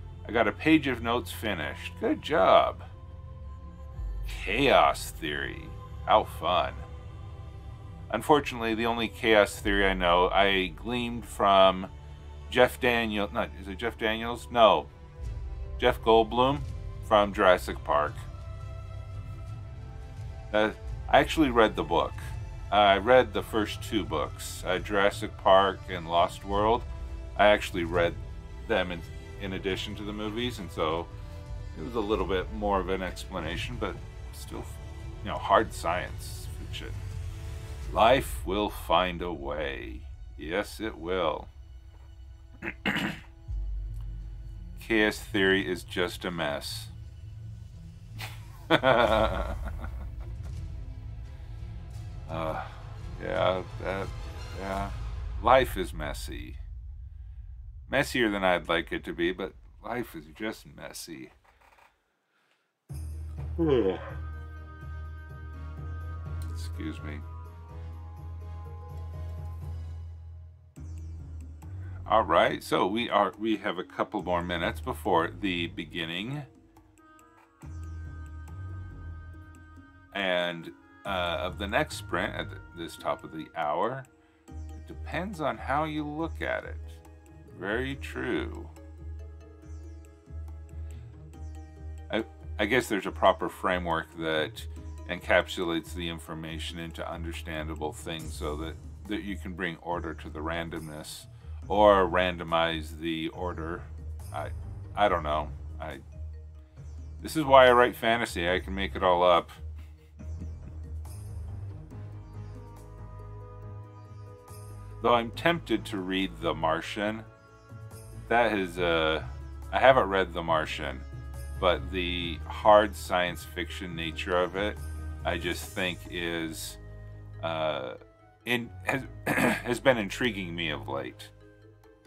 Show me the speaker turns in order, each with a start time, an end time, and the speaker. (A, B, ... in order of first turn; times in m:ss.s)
0:00.2-0:02.9 A
0:04.2-0:06.8 A
0:08.1-0:11.9 A
0:12.5-0:14.9 A
0:15.8-0:18.2 A
0:20.5-0:31.1 A
0:31.7-0:37.0 A
0:37.9-0:41.5 A
0:42.6-0:43.2 A
0:44.8-0:46.9 A
0:48.7-0:49.9 A
0:52.3-0:56.6 A
0:57.9-1:01.3 A
1:03.6-1:04.1 A
1:06.4-1:07.2 A
1:12.0-1:16.5 A
1:20.1-1:24.1 A
1:24.8-1:28.7 A
1:32.1-1:46.0 A
1:47.2-1:49.6 A
1:55.0-1:57.3 A
1:58.3-2:01.1 A
2:01.6-2:06.8 A
2:07.4-2:11.3 A